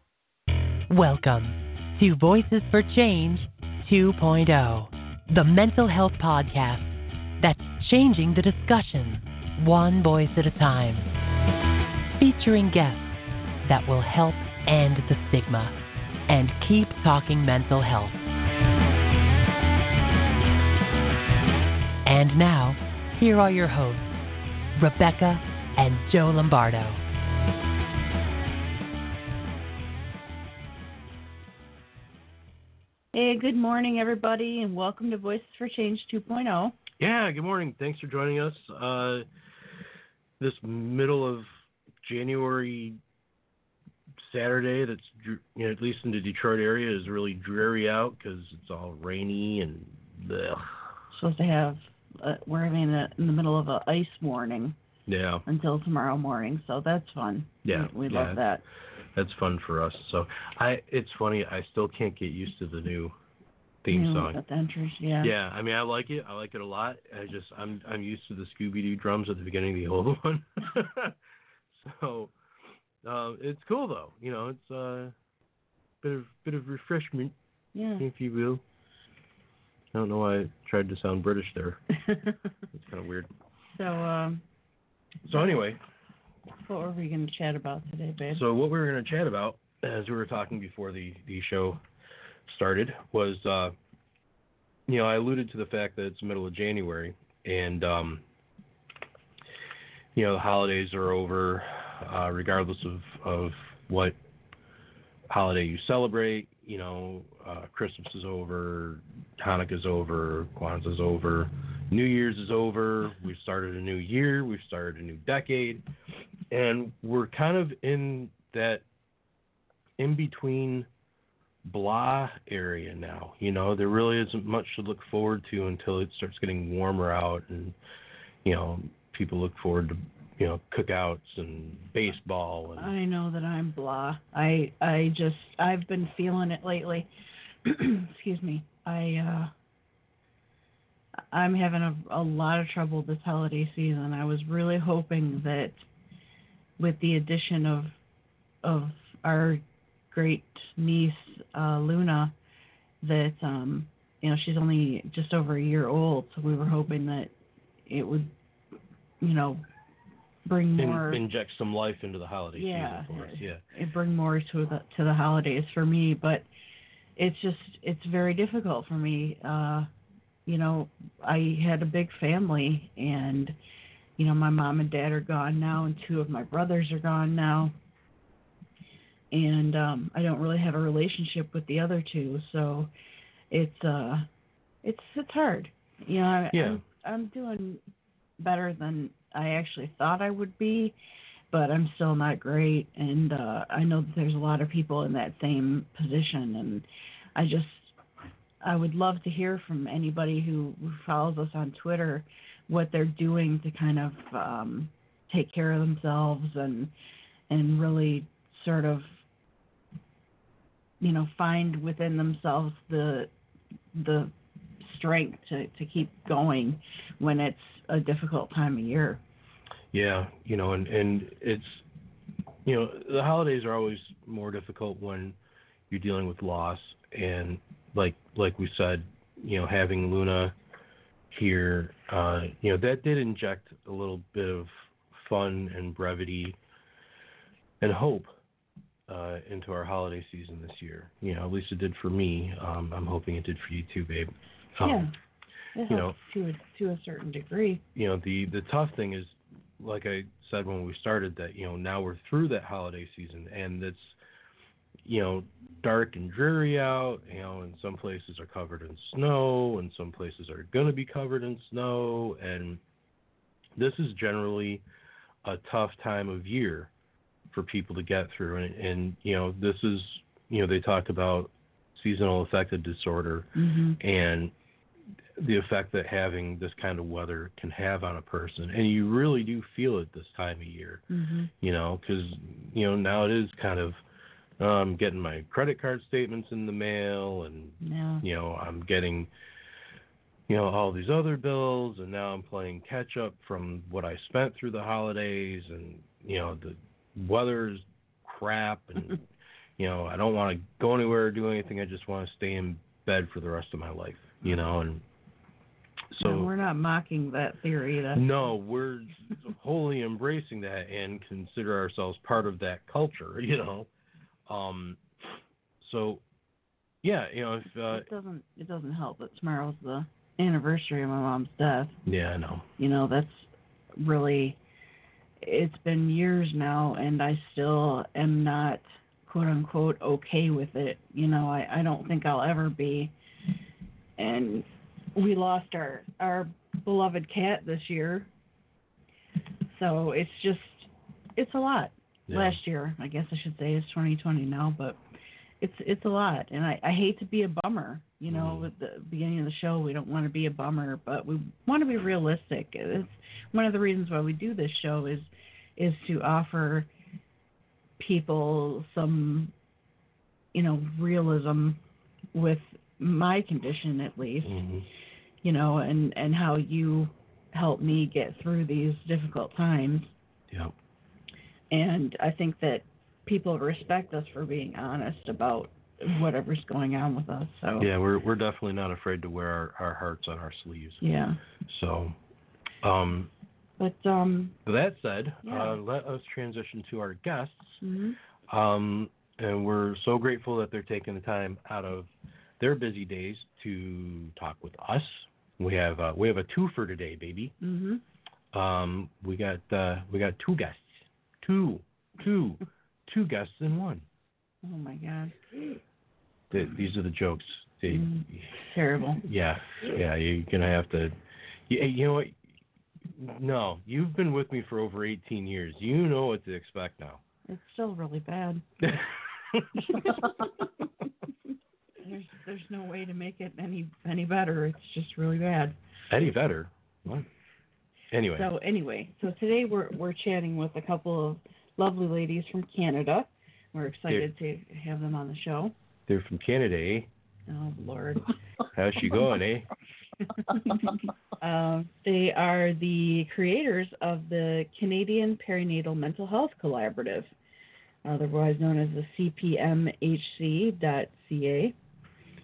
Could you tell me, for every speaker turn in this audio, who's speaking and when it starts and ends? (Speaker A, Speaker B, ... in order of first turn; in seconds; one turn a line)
Speaker A: 0.9-11.1
Speaker A: 12.2-13.1
Speaker A: 13.7-15.8
Speaker A: 16.3-18.2
Speaker A: 22.0-24.1
Speaker A: 24.8-27.0
Speaker B: 33.1-36.8
Speaker C: 37.0-39.2
Speaker C: 40.4-41.5
Speaker C: 42.0-43.0
Speaker C: 44.2-50.8
Speaker B: 51.1-54.8
Speaker C: 55.1-55.4
Speaker B: 55.5-58.6
Speaker C: 57.6-58.4
Speaker C: 59.1-63.1
Speaker C: 63.8-64.4
Speaker B: 63.9-65.3
Speaker C: 65.2-71.2
Speaker C: 71.7-72.3
Speaker C: 73.0-75.1
Speaker C: 76.0-77.3
Speaker B: 77.7-78.0
Speaker C: 78.0-78.6
Speaker C: 79.9-81.8
Speaker B: 82.1-82.3
Speaker C: 82.7-83.3
Speaker B: 83.7-84.4
Speaker C: 85.3-85.8
Speaker B: 86.6-88.4
Speaker C: 88.3-91.8
Speaker C: 92.5-93.7
Speaker C: 94.9-98.2
Speaker C: 100.1-104.1
Speaker C: 105.3-115.8
Speaker C: 116.5-118.8
Speaker C: 120.0-120.9
Speaker C: 121.7-127.8
Speaker C: 128.4-132.9
Speaker B: 132.8-137.1
Speaker B: 137.7-139.5
Speaker B: 141.3-145.8
Speaker B: 146.8-147.9
Speaker B: 148.6-152.3
Speaker B: 153.0-157.3
Speaker B: 157.9-158.3
Speaker B: 159.2-159.7
Speaker B: 160.4-161.2
Speaker C: 160.8-163.6
Speaker B: 162.5-166.4
Speaker B: 167.2-169.9
Speaker B: 170.5-173.6
Speaker B: 174.2-177.7
Speaker B: 179.3-182.9
Speaker B: 183.5-184.3
Speaker B: 184.8-187.8
Speaker C: 186.5-186.8
Speaker B: 188.4-190.9
Speaker B: 191.5-197.9
Speaker B: 198.6-206.9
Speaker B: 207.5-209.1
Speaker B: 211.0-213.3
Speaker B: 213.9-219.2
Speaker C: 219.9-221.8
Speaker C: 222.6-225.4
Speaker C: 225.9-230.5
Speaker C: 231.3-236.6
Speaker C: 237.8-238.3
Speaker C: 239.1-245.1
Speaker B: 244.8-245.1
Speaker B: 245.7-247.8
Speaker C: 245.9-246.1
Speaker C: 247.9-254.2
Speaker C: 255.0-262.8
Speaker C: 263.8-264.8
Speaker C: 265.4-266.9
Speaker C: 267.5-274.5
Speaker B: 273.6-274.0
Speaker C: 275.4-281.0
Speaker B: 281.1-281.5
Speaker C: 281.6-284.0
Speaker C: 284.6-289.3
Speaker B: 287.8-288.2
Speaker C: 290.5-299.2
Speaker C: 299.8-305.0
Speaker C: 306.1-306.5
Speaker B: 306.2-308.3
Speaker C: 308.1-313.9
Speaker C: 314.5-315.0
Speaker C: 315.8-316.2
Speaker C: 317.0-318.1
Speaker B: 317.9-322.0
Speaker C: 322.1-322.7
Speaker B: 322.8-324.6
Speaker B: 325.4-333.1
Speaker B: 334.2-338.3
Speaker B: 339.7-345.0
Speaker C: 342.3-342.6
Speaker B: 345.6-356.9
Speaker C: 348.3-348.7
Speaker B: 358.0-359.5
Speaker B: 360.5-361.8
Speaker B: 362.3-364.6
Speaker C: 364.4-364.9
Speaker B: 365.4-370.1
Speaker B: 371.7-377.9
Speaker C: 377.8-381.0
Speaker B: 381.0-381.4
Speaker C: 381.7-382.2
Speaker C: 382.8-383.3
Speaker B: 383.8-384.6
Speaker C: 384.6-387.8
Speaker B: 385.4-385.8
Speaker B: 387.8-388.2
Speaker C: 388.5-392.1
Speaker C: 392.6-397.5
Speaker B: 397.6-398.0
Speaker C: 398.5-404.0
Speaker B: 404.6-405.4
Speaker C: 406.5-408.5
Speaker B: 407.9-409.2
Speaker C: 409.2-411.1
Speaker C: 411.7-412.4
Speaker C: 413.1-417.2
Speaker B: 417.5-418.6
Speaker C: 418.8-420.3
Speaker B: 419.9-420.3
Speaker B: 422.0-425.8
Speaker C: 426.1-427.3
Speaker C: 428.1-428.5
Speaker B: 428.3-435.7
Speaker C: 436.1-437.1
Speaker B: 437.5-438.4
Speaker C: 438.8-439.7
Speaker B: 441.4-447.3
Speaker B: 448.0-451.8